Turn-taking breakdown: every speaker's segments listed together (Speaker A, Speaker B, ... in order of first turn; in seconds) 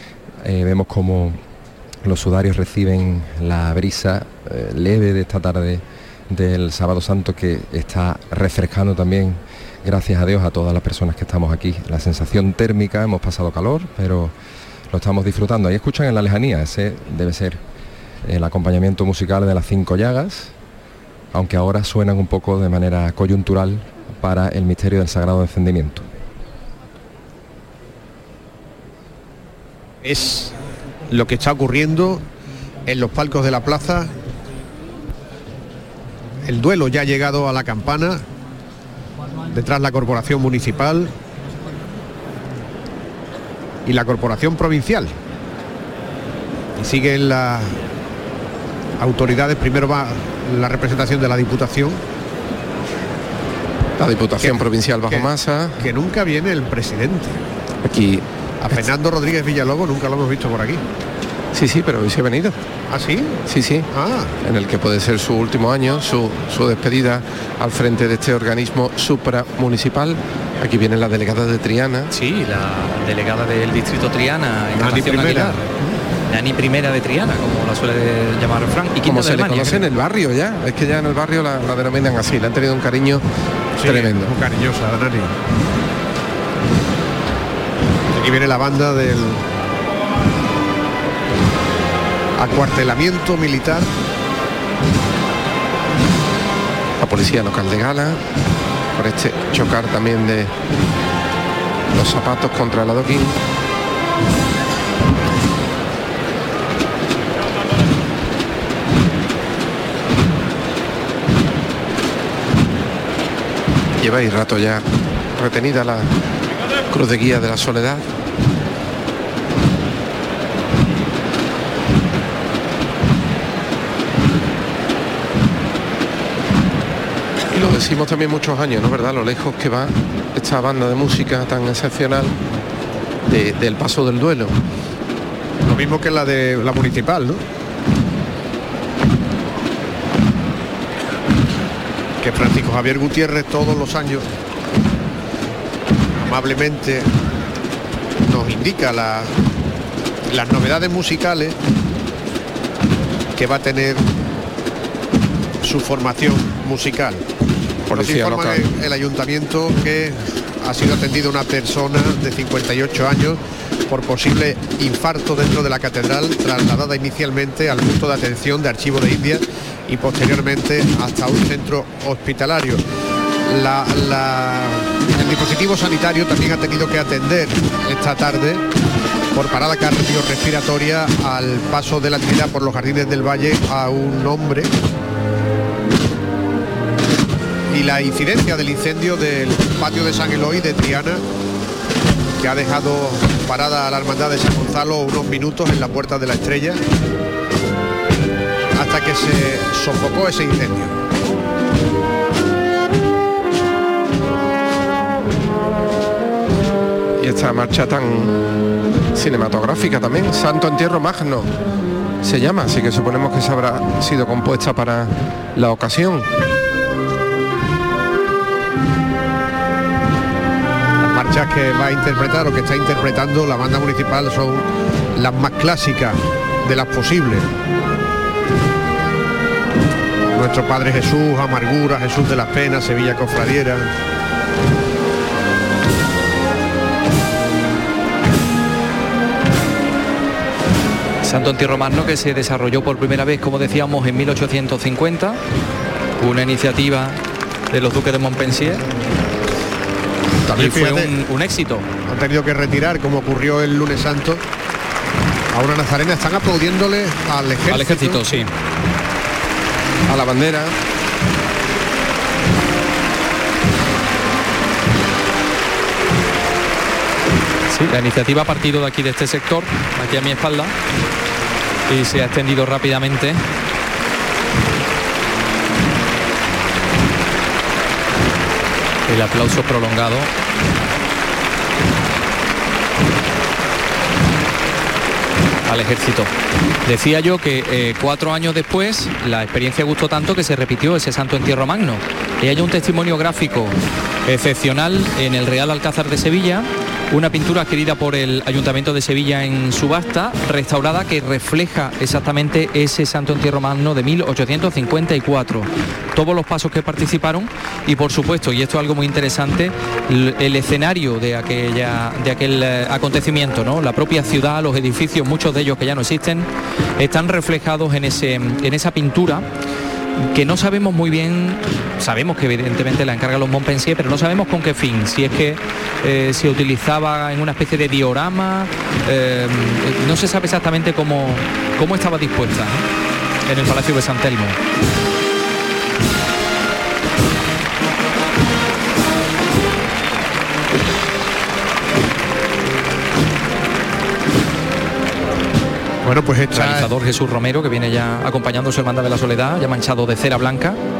Speaker A: 0.4-1.4, 2.0-14.3, 14.9-17.6, 18.2-20.5, 21.3-26.1
Speaker B: 30.0-30.5, 31.1-32.2, 32.9-34.1, 36.5-38.2, 39.5-41.1, 43.8-45.1, 46.8-47.8, 49.0-52.0, 54.4-57.4, 58.6-60.8, 62.9-63.4, 63.9-64.3, 74.8-76.0, 83.8-85.3, 88.1-89.5, 92.3-93.9, 135.6-137.4, 142.2-144.3, 146.2-147.1, 148.3-149.3, 150.3-151.6, 153.3-154.1, 155.6-157.2, 157.9-172.8, 173.4-178.6, 179.3-184.7, 187.7-191.2, 192.4-196.8, 198.7-201.0, 221.0-227.5, 230.3-233.9, 250.4-251.1, 252.1-254.4, 255.5-258.2, 346.0-346.9
Speaker C: 54.0-55.9, 57.8-58.9, 61.5-62.6, 63.5-63.9, 64.4-72.1, 79.0-83.2, 83.8-84.3, 97.0-98.2, 99.0-100.5, 101.9-103.4, 114.0-114.8, 115.4-116.1, 116.9-118.0, 127.5-132.3, 133.3-134.6, 157.9-158.6, 207.2-208.4, 209.1-211.5, 212.2-216.3, 260.1-260.7
Speaker D: 72.1-75.7, 76.3-79.9, 241.2-245.4, 246.2-247.2, 247.7-248.8, 250.5-251.9, 257.7-258.5, 267.7-270.7, 271.9-273.4, 279.1-280.3, 285.6-286.3, 286.8-293.7, 294.2-319.5, 320.2-332.8, 333.4-334.6, 346.5-350.8